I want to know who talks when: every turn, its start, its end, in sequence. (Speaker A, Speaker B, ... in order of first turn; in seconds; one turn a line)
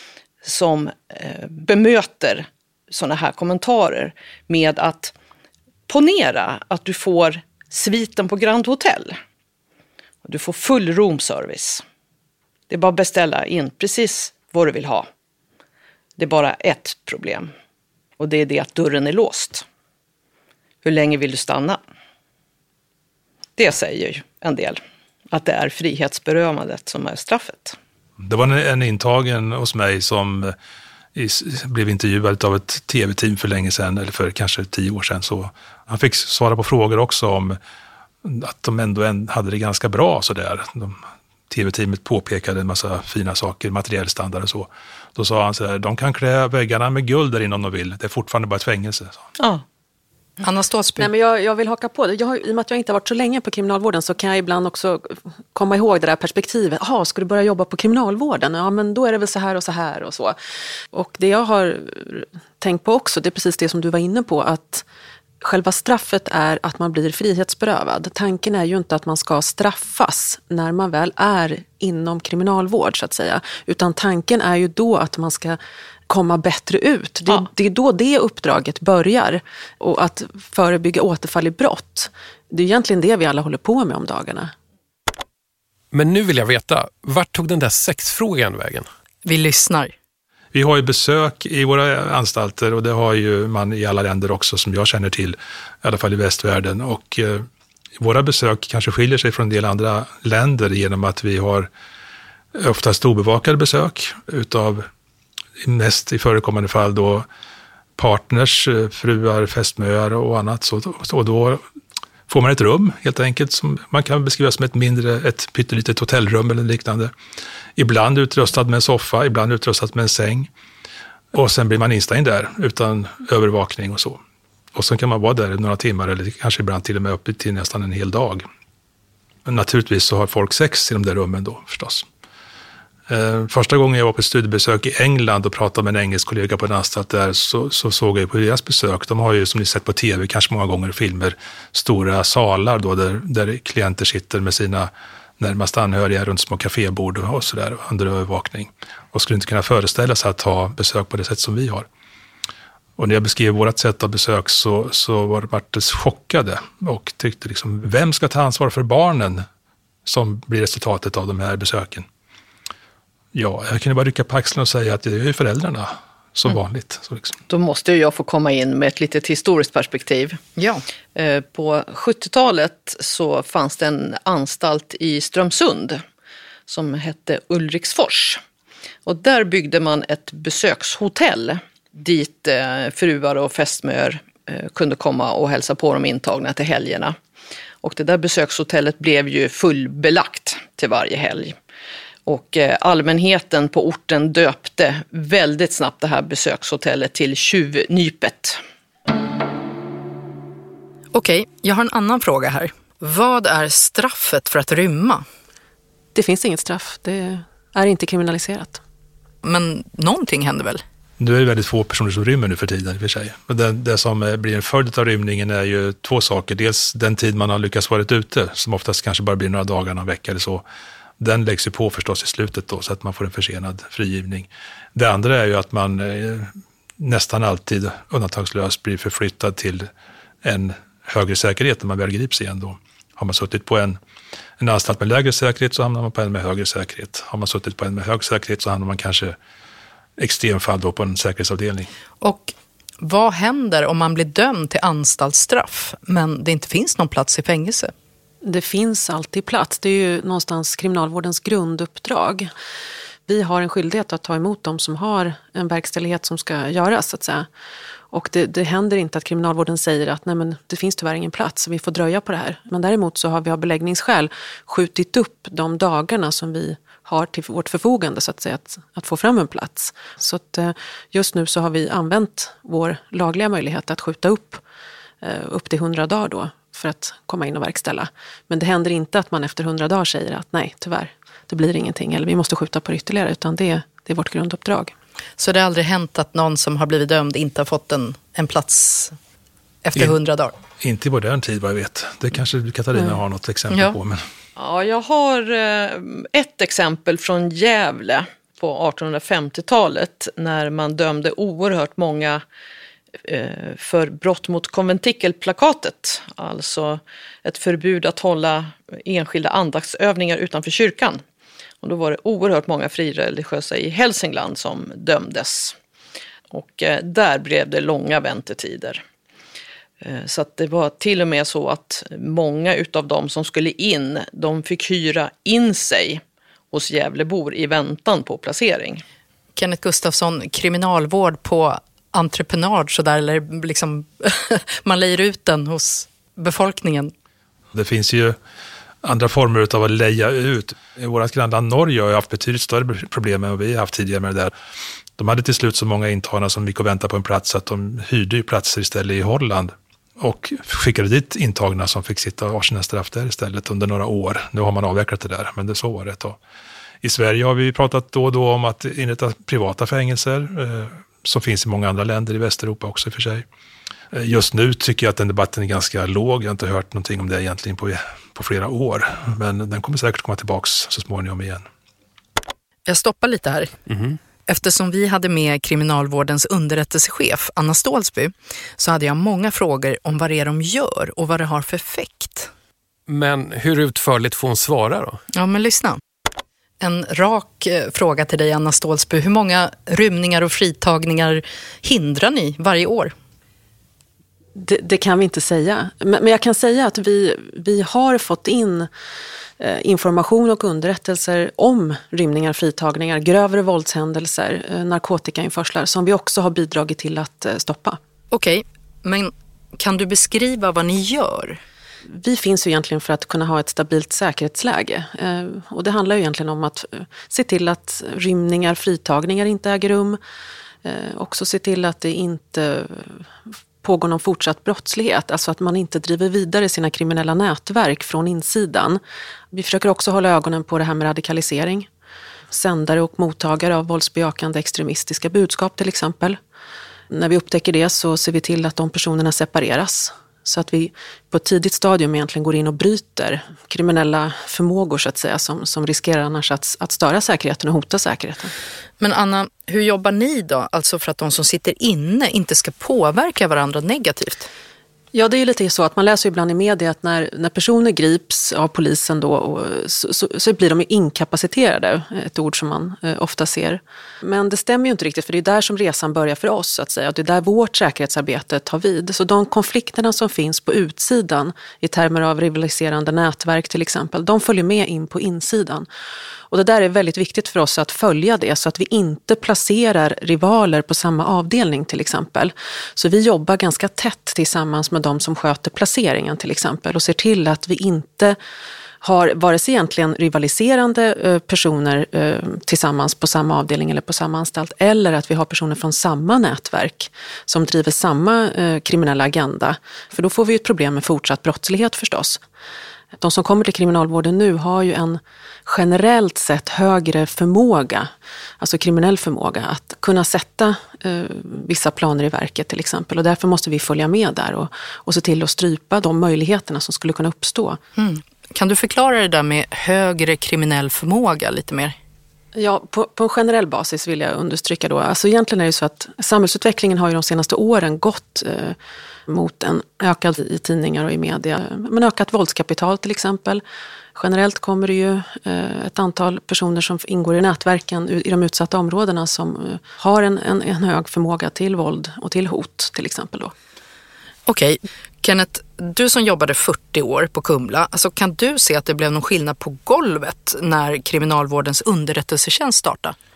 Speaker A: 0.4-5.1
Speaker A: 5.9-9.2
Speaker A: 10.2-11.8
Speaker A: 12.7-15.1
Speaker A: 16.2-17.5
Speaker A: 18.2-19.6
Speaker A: 20.8-21.8
Speaker A: 23.6-24.8
Speaker A: 25.3-27.8
Speaker B: 28.2-30.5
Speaker B: 31.1-37.6
Speaker B: 38.2-41.0
Speaker B: 41.5-49.2
Speaker A: 49.4-49.6
Speaker C: 50.4-51.1
Speaker D: 51.0-60.4
Speaker D: 60.9-64.8
Speaker D: 65.4-84.5
Speaker E: 85.9-88.9
Speaker C: 89.2-89.9
Speaker B: 90.5-97.5
Speaker B: 98.0-101.7
Speaker B: 102.5-104.9
Speaker B: 105.6-107.2
Speaker B: 108.0-111.6
Speaker B: 112.3-117.1
Speaker B: 117.8-120.5
Speaker B: 121.3-124.2
Speaker B: 124.7-128.4
Speaker B: 129.4-132.1
Speaker B: 133.1-151.8
Speaker B: 153.0-159.4
Speaker B: 160.1-162.1
Speaker B: 163.3-167.4
Speaker A: 167.5-170.4
Speaker C: 170.6-170.8
Speaker A: 171.1-176.0
Speaker A: 176.7-178.4
Speaker A: 179.1-187.2
Speaker A: 187.8-191.6
Speaker A: 192.2-198.6
Speaker C: 201.1-205.2
Speaker D: 206.1-208.8
Speaker C: 209.4-210.8
Speaker B: 211.2-220.6
Speaker B: 221.2-229.9
Speaker B: 230.4-234.0
Speaker B: 234.6-239.3
Speaker B: 240.2-241.9
Speaker C: 242.2-247.9
Speaker D: 248.4-252.5
Speaker D: 253.3-257.5
Speaker D: 258.1-274.6
Speaker D: 275.2-284.9
Speaker C: 285.4-289.1
Speaker C: 289.8-290.6
Speaker B: 290.8-294.2
Speaker C: 293.7-293.9
Speaker A: 294.6-302.4
Speaker A: 303.2-311.2
Speaker A: 311.8-315.8
Speaker A: 316.5-319.0
Speaker A: 320.0-329.0
Speaker C: 329.6-337.1
Speaker B: 337.7-338.4
Speaker B: 339.0-344.5
Speaker B: 345.2-356.4
Speaker B: 357.0-363.4
Speaker B: 364.1-371.6
Speaker C: 372.9-373.7
Speaker E: 373.9-374.2
Speaker C: 374.5-382.5
Speaker E: 383.1-385.2
Speaker C: 385.3-386.0
Speaker C: 386.8-393.1
Speaker D: 394.5-398.9
Speaker D: 399.6-408.0
Speaker C: 408.3-411.6
Speaker D: 412.1-420.2
Speaker D: 420.8-423.2
Speaker D: 423.8-429.0
Speaker D: 429.5-431.9
Speaker D: 432.5-436.4
Speaker D: 437.1-448.5
Speaker C: 449.0-454.5
Speaker D: 455.1-475.9
Speaker D: 476.5-488.4
Speaker D: 489.0-502.4
Speaker D: 503.2-517.8
Speaker C: 518.0-522.0
Speaker D: 522.5-528.8
Speaker D: 529.3-533.6
Speaker D: 534.1-543.5
Speaker C: 544.5-553.1